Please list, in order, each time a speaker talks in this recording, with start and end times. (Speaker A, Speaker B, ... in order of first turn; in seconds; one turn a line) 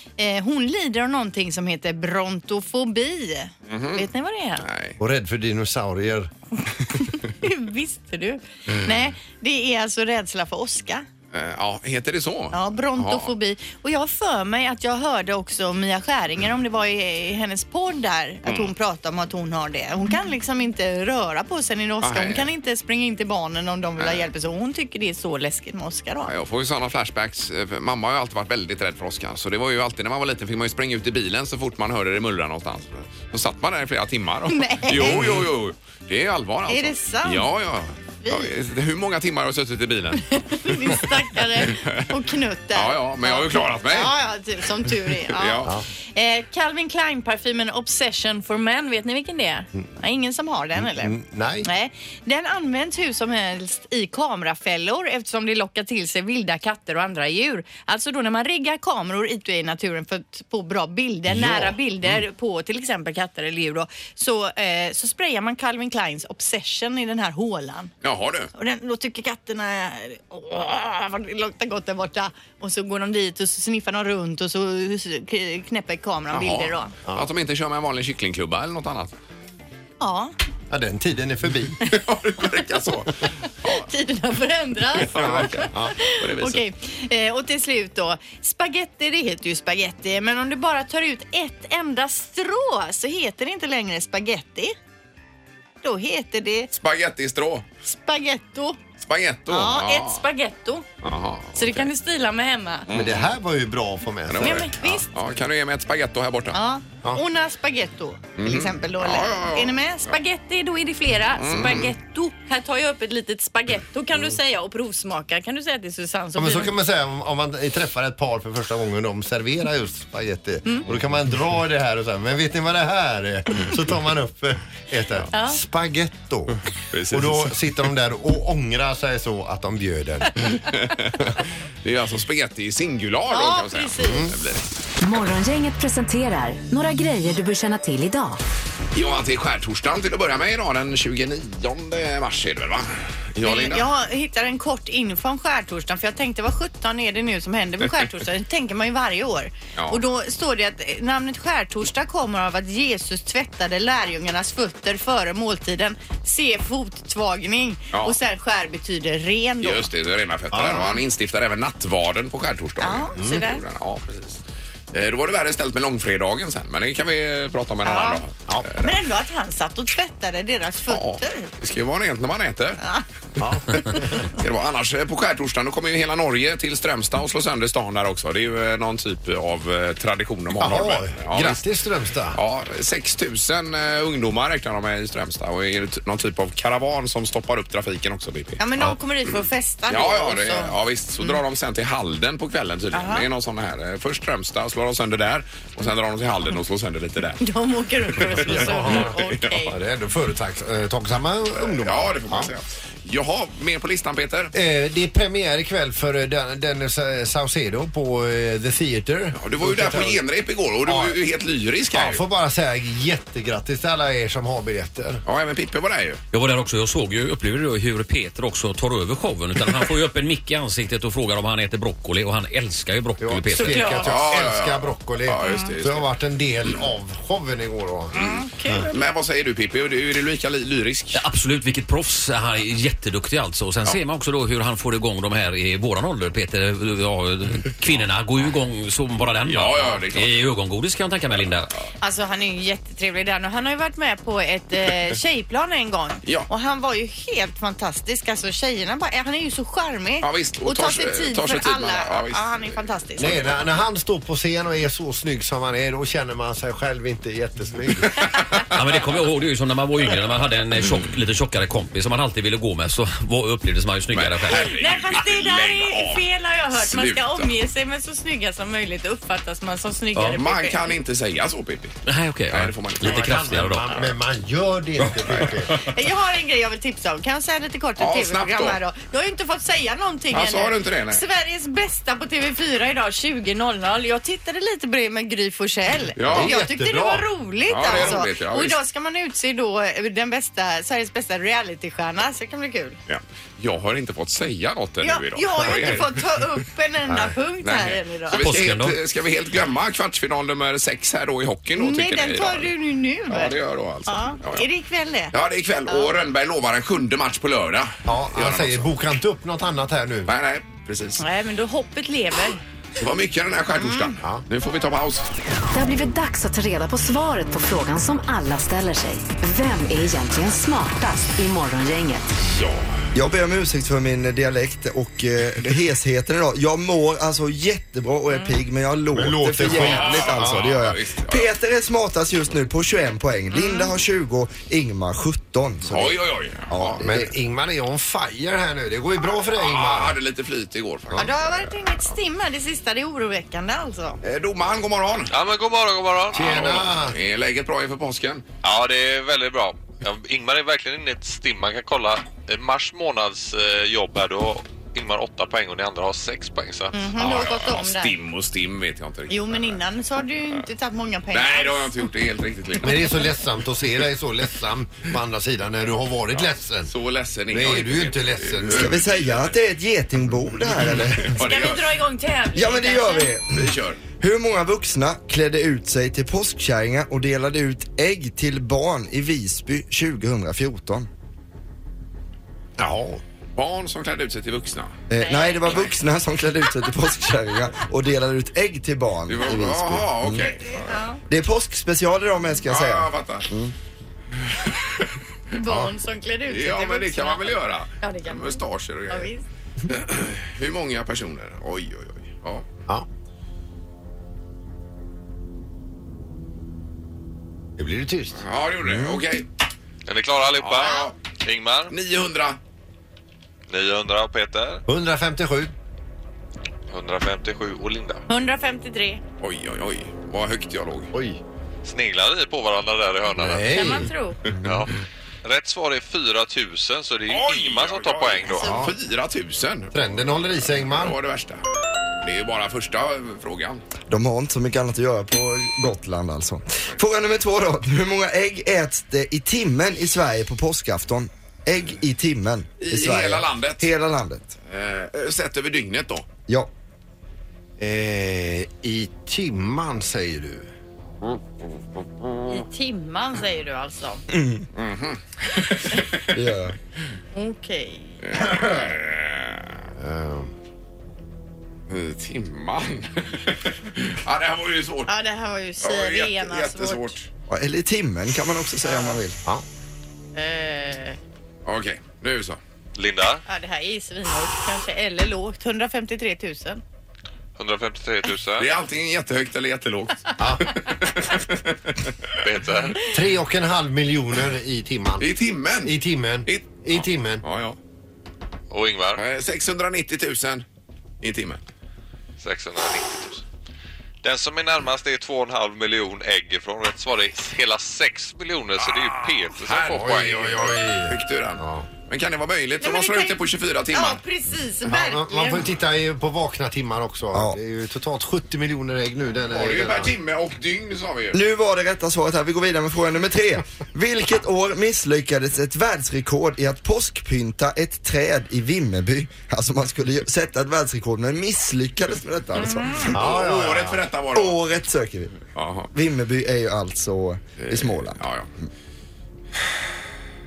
Speaker A: 0.2-4.6
Speaker B: 3.7-4.1
Speaker B: 4.6-5.0
Speaker C: 5.0-6.3
Speaker A: 7.0-11.1
Speaker B: 11.3-13.3
Speaker A: 12.5-26.3
Speaker B: 18.4-18.7
Speaker B: 22.0-22.5
Speaker B: 24.0-24.3
Speaker B: 26.2-41.0
Speaker A: 34.5-35.5
Speaker A: 36.7-37.5
Speaker A: 38.2-38.5
Speaker A: 40.3-67.9
Speaker B: 41.6-42.0
Speaker B: 42.7-44.1
Speaker B: 45.3-45.7
Speaker C: 50.8-51.7
Speaker C: 61.3-61.8
Speaker B: 68.0-68.5
Speaker A: 68.5-76.9
Speaker B: 76.3-79.1
Speaker A: 80.0-80.3
Speaker C: 80.7-81.8
Speaker B: 81.9-83.9
Speaker A: 83.6-94.7
Speaker B: 85.0-86.6
Speaker C: 85.1-85.9
Speaker A: 95.8-96.7
Speaker B: 96.7-97.7
Speaker A: 97.8-98.8
Speaker B: 99.0-100.2
Speaker A: 99.5-100.8
Speaker B: 101.0-101.9
Speaker A: 101.5-102.8
Speaker B: 102.9-103.3
Speaker C: 102.9-104.7
Speaker B: 104.3-106.6
Speaker A: 104.4-105.0
Speaker A: 106.5-116.7
Speaker B: 108.4-110.1
Speaker B: 111.3-111.9
Speaker C: 116.3-126.5
Speaker A: 125.3-125.6
Speaker B: 126.9-127.7
Speaker C: 127.1-130.4
Speaker B: 130.4-134.7
Speaker A: 133.3-134.3
Speaker C: 134.0-134.3
Speaker D: 135.0-138.4
Speaker B: 138.9-143.8
Speaker A: 143.4-159.9
Speaker B: 159.6-164.4
Speaker C: 160.5-160.9
Speaker A: 160.7-161.0
Speaker A: 162.8-163.6
Speaker C: 163.2-163.4
Speaker B: 164.9-169.0
Speaker A: 167.8-168.2
Speaker A: 168.8-171.5
Speaker B: 170.9-172.8
Speaker C: 173.4-174.2
Speaker B: 174.4-181.6
Speaker C: 180.5-182.4
Speaker B: 182.3-188.6
Speaker A: 188.6-191.4
Speaker B: 189.9-197.4
Speaker A: 192.9-193.2
Speaker A: 197.4-199.8
Speaker B: 198.2-199.5
Speaker C: 198.3-202.5
Speaker B: 201.6-204.5
Speaker C: 204.5-210.2
Speaker B: 209.3-212.2
Speaker C: 210.8-211.2
Speaker C: 211.9-215.2
Speaker B: 215.2-216.2
Speaker E: 216.3-223.9
Speaker C: 223.2-228.1
Speaker A: 223.5-224.1
Speaker B: 224.0-226.1
Speaker A: 225.4-225.7
Speaker A: 228.1-228.9
Speaker B: 228.1-231.2
Speaker E: 231.1-241.7
Speaker B: 239.4-240.4
Speaker A: 242.0-253.6
Speaker B: 250.2-252.7
Speaker C: 253.2-258.1
Speaker E: 258.7-264.8
Speaker B: 264.1-267.5
Speaker A: 264.5-270.9
Speaker B: 270.3-272.0
Speaker E: 272.1-274.0
Speaker B: 272.5-273.5
Speaker C: 273.0-275.7
Speaker B: 275.2-275.6
Speaker A: 275.8-293.0
Speaker B: 278.0-278.8
Speaker B: 280.3-281.2
Speaker B: 286.1-286.6
Speaker C: 286.3-287.3
Speaker B: 287.7-288.8
Speaker C: 287.9-288.2
Speaker B: 293.1-296.2
Speaker A: 295.0-298.4
Speaker C: 297.1-297.3
Speaker B: 297.6-302.7
Speaker E: 298.4-299.0
Speaker A: 301.8-303.5
Speaker B: 303.3-304.6
Speaker A: 304.1-305.3
Speaker B: 305.3-308.9
Speaker C: 308.1-310.3
Speaker B: 310.2-311.2
Speaker A: 311.2-312.6
Speaker B: 313.0-315.3
Speaker A: 313.8-314.1
Speaker D: 315.7-322.3
Speaker B: 322.4-322.9
Speaker F: 323.1-336.2
Speaker A: 328.3-328.6
Speaker C: 329.1-330.7
Speaker B: 329.7-331.5
Speaker A: 333.5-333.9
Speaker B: 335.8-337.2
Speaker F: 336.7-337.2
Speaker C: 337.0-340.2
Speaker B: 339.4-342.0
Speaker A: 341.1-344.2
Speaker B: 344.2-345.3
Speaker G: 345.3-346.5
Speaker C: 346.3-347.2
Speaker B: 346.4-348.4
Speaker G: 348.6-356.9
Speaker A: 356.9-358.1
Speaker B: 357.1-359.8
Speaker A: 359.3-362.0
Speaker B: 361.3-363.3
Speaker C: 362.8-366.9
Speaker B: 366.3-369.5
Speaker C: 367.5-368.9
Speaker F: 368.7-371.4
Speaker B: 370.9-371.9
Speaker A: 371.4-373.3
Speaker F: 372.5-381.1
Speaker B: 373.5-374.0
Speaker C: 382.8-383.2
Speaker B: 383.6-385.0
Speaker F: 385.1-390.6
Speaker A: 385.2-385.9
Speaker B: 389.3-391.0
Speaker A: 390.6-391.2
Speaker F: 391.3-393.7
Speaker B: 392.7-393.5
Speaker B: 394.4-395.1
Speaker A: 395.5-399.4
Speaker B: 396.5-399.3
Speaker B: 399.9-402.6
Speaker C: 407.8-408.4
Speaker B: 408.4-409.4
Speaker G: 410.1-411.9
Speaker B: 410.6-411.1
Speaker B: 411.9-412.6
Speaker G: 413.7-414.8
Speaker C: 414.9-415.7
Speaker G: 416.9-418.2
Speaker A: 418.3-419.2
Speaker B: 419.4-421.1
Speaker C: 421.1-421.4
Speaker G: 421.8-423.7
Speaker C: 423.3-424.1
Speaker A: 423.7-424.4
Speaker G: 424.6-424.9
Speaker G: 425.4-428.8
Speaker B: 427.3-430.1
Speaker C: 428.6-428.9
Speaker C: 429.9-431.1
Speaker B: 430.7-431.6
Speaker B: 432.2-433.8
Speaker F: 434.1-444.6
Speaker B: 442.8-443.9
Speaker B: 444.7-446.2
Speaker C: 447.8-450.7
Speaker A: 452.5-454.2
Speaker F: 454.3-454.7
Speaker B: 454.7-456.2
Speaker F: 456.3-456.8
Speaker A: 457.3-458.2
Speaker B: 458.2-459.8
Speaker C: 459.9-460.5
Speaker B: 461.9-465.1
Speaker A: 465.1-467.1
Speaker B: 465.8-467.3
Speaker F: 467.5-469.4
Speaker A: 468.8-469.2
Speaker A: 470.3-471.2
Speaker B: 471.6-472.6
Speaker G: 472.9-473.4
Speaker A: 473.4-476.8
Speaker G: 477.6-478.7
Speaker B: 478.6-481.9
Speaker C: 480.4-480.7
Speaker G: 482.4-483.1
Speaker C: 483.1-485.3
Speaker B: 485.2-487.8
Speaker C: 485.8-487.4
Speaker G: 488.7-489.2
Speaker B: 489.1-490.6
Speaker B: 491.2-491.6
Speaker G: 492.4-493.4
Speaker G: 494.2-500.4
Speaker B: 499.6-504.2
Speaker C: 499.9-501.9
Speaker A: 502.8-503.4
Speaker A: 503.9-505.7
Speaker C: 504.9-510.1
Speaker B: 509.5-511.4
Speaker F: 511.3-523.2
Speaker B: 523.0-524.6
Speaker C: 523.1-524.0
Speaker F: 524.3-525.4
Speaker B: 525.5-525.9
Speaker F: 525.9-528.2
Speaker B: 527.6-528.5